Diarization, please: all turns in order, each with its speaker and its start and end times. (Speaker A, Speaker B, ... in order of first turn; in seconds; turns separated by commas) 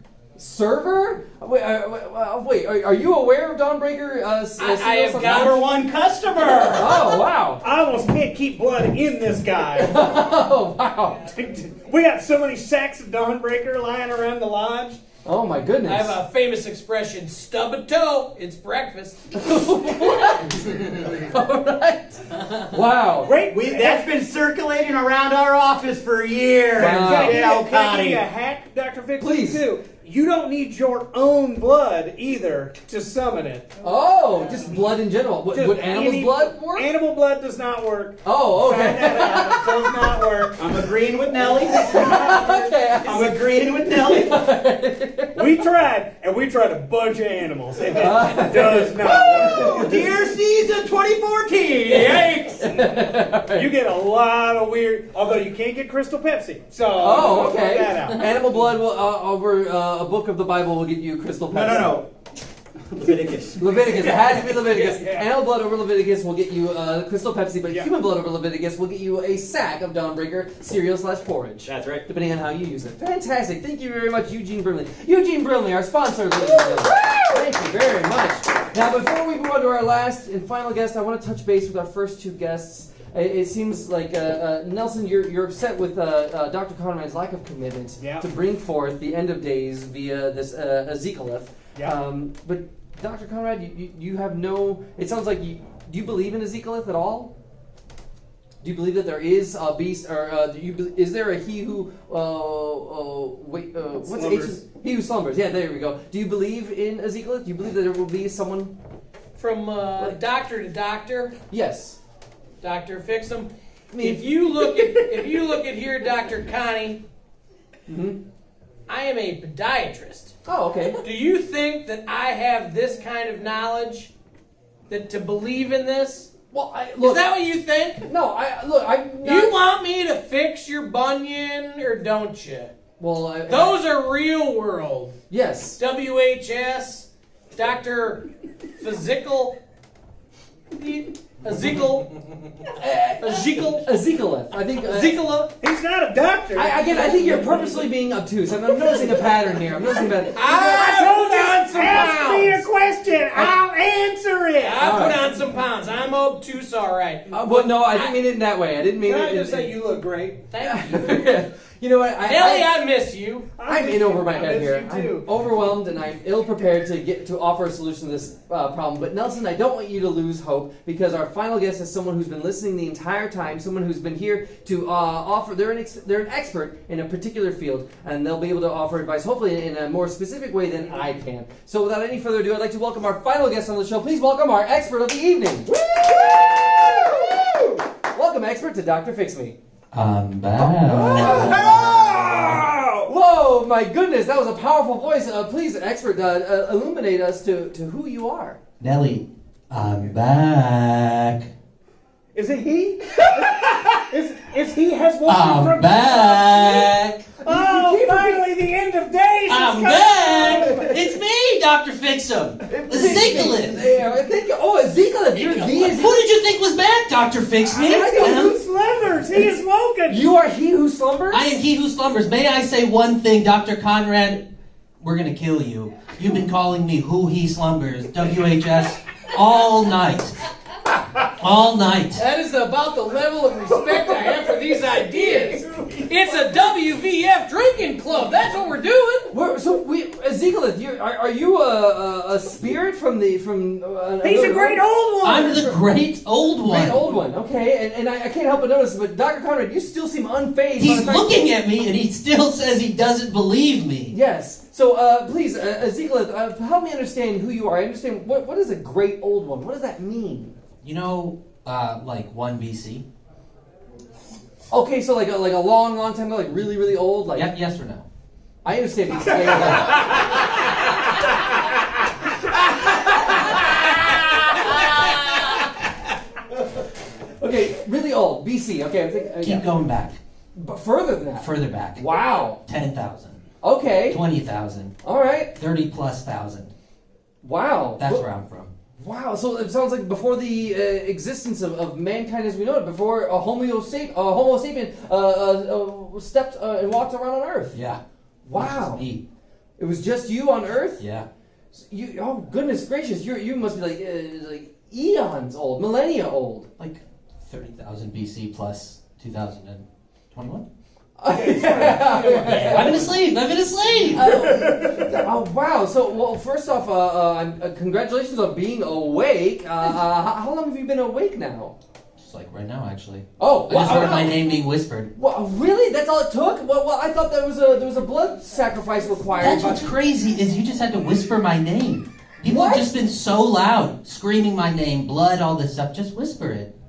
Speaker A: 0.4-5.6, Speaker B: 4.6-5.7, Speaker C: 5.2-7.1, Speaker A: 6.7-7.6, Speaker D: 7.6-10.1, Speaker A: 9.8-11.3, Speaker D: 11.3-15.0, Speaker A: 15.2-16.2, Speaker B: 15.9-19.3, Speaker A: 19.3-23.3, Speaker D: 23.2-24.1, Speaker C: 23.5-28.3, Speaker D: 26.8-33.7, Speaker A: 26.8-27.4, Speaker A: 29.2-29.7, Speaker A: 33.8-36.9, Speaker D: 35.5-40.6, Speaker A: 38.2-40.3, Speaker C: 40.6-44.5, Speaker A: 41.7-45.5, Speaker D: 41.9-42.4, Speaker D: 45.4-50.1, Speaker A: 48.0-50.1, Speaker C: 49.1-52.5, Speaker D: 51.9-58.5, Speaker A: 52.6-53.7, Speaker A: 57.0-62.0, Speaker C: 61.5-62.1, Speaker C: 62.8-64.2, Speaker A: 63.6-97.3, Speaker D: 63.7-65.3, Speaker C: 71.6-72.1, Speaker D: 76.7-77.2, Speaker D: 88.0-88.3, Speaker A: 98.6-108.7, Speaker D: 104.1-104.6, Speaker B: 109.4-111.3, Speaker A: 111.5-112.0, Speaker B: 112.6-117.0, Speaker A: 113.9-114.3, Speaker A: 117.9-118.2, Speaker B: 118.9-120.4, Speaker A: 120.5-121.0, Speaker B: 121.0-124.1, Speaker B: 124.9-126.3, Speaker A: 126.5-127.3, Speaker B: 127.0-128.1, Speaker A: 128.1-129.6, Speaker B: 129.2-132.7, Speaker A: 133.0-133.8, Speaker B: 133.5-135.2, Speaker A: 135.3-135.8, Speaker B: 135.8-138.3, Speaker B: 138.8-139.6, Speaker B: 140.7-142.1, Speaker A: 142.8-145.2, Speaker B: 143.2-143.9, Speaker B: 144.8-145.5, Speaker D: 145.6-147.9, Speaker A: 146.6-150.5, Speaker D: 148.8-149.2, Speaker B: 150.3-152.7, Speaker D: 150.4-155.0, Speaker B: 154.6-158.2, Speaker A: 154.8-155.2, Speaker A: 157.3-159.8, Speaker D: 159.0-160.4, Speaker B: 160.5-161.2, Speaker A: 160.6-162.7, Speaker B: 162.2-163.5, Speaker D: 163.6-165.3, Speaker A: 163.7-187.4, Speaker C: 186.9-187.4, Speaker A: 188.0-189.6, Speaker E: 189.9-192.3, Speaker A: 190.8-192.2, Speaker D: 191.1-192.9, Speaker C: 191.3-193.0, Speaker A: 193.1-198.6, Speaker E: 198.8-201.5, Speaker D: 202.3-211.0, Speaker E: 205.3-207.3, Speaker A: 207.4-208.5, Speaker E: 209.5-213.8, Speaker A: 212.7-216.2, Speaker B: 215.4-215.9, Speaker E: 215.7-218.6, Speaker D: 217.7-220.3, Speaker A: 217.8-218.6, Speaker A: 220.1-221.6, Speaker E: 221.3-224.5, Speaker E: 225.0-230.4, Speaker E: 231.4-232.2, Speaker B: 232.2-239.3, Speaker D: 235.7-236.0, Speaker A: 239.3-244.9, Speaker D: 244.2-245.7, Speaker E: 245.2-247.1, Speaker A: 246.6-251.4, Speaker E: 250.8-254.2, Speaker A: 254.1-260.6, Speaker E: 260.8-263.1, Speaker A: 264.7-267.5, Speaker E: 267.3-268.1, Speaker A: 268.6-270.2, Speaker A: 273.2-273.6, Speaker A: 277.4-279.7, Speaker E: 279.4-280.2, Speaker A: 280.6-282.6, Speaker E: 281.4-283.4, Speaker A: 283.6-284.2, Speaker E: 284.1-284.9, Speaker A: 285.0-285.6, Speaker E: 285.6-286.7, Speaker A: 287.4-288.3, Speaker E: 288.0-288.7, Speaker A: 289.0-297.8, Speaker E: 297.7-298.0, Speaker A: 298.4-299.1, Speaker E: 298.5-299.2, Speaker A: 299.8-301.0, Speaker E: 301.0-301.3, Speaker A: 301.7-306.7, Speaker E: 306.8-310.7, Speaker A: 311.2-313.1, Speaker D: 311.3-313.1, Speaker E: 311.7-314.5, Speaker A: 314.1-321.8, Speaker E: 322.2-325.1, Speaker A: 323.4-324.4, Speaker A: 325.1-329.9, Speaker E: 329.4-336.7, Speaker A: 332.4-332.9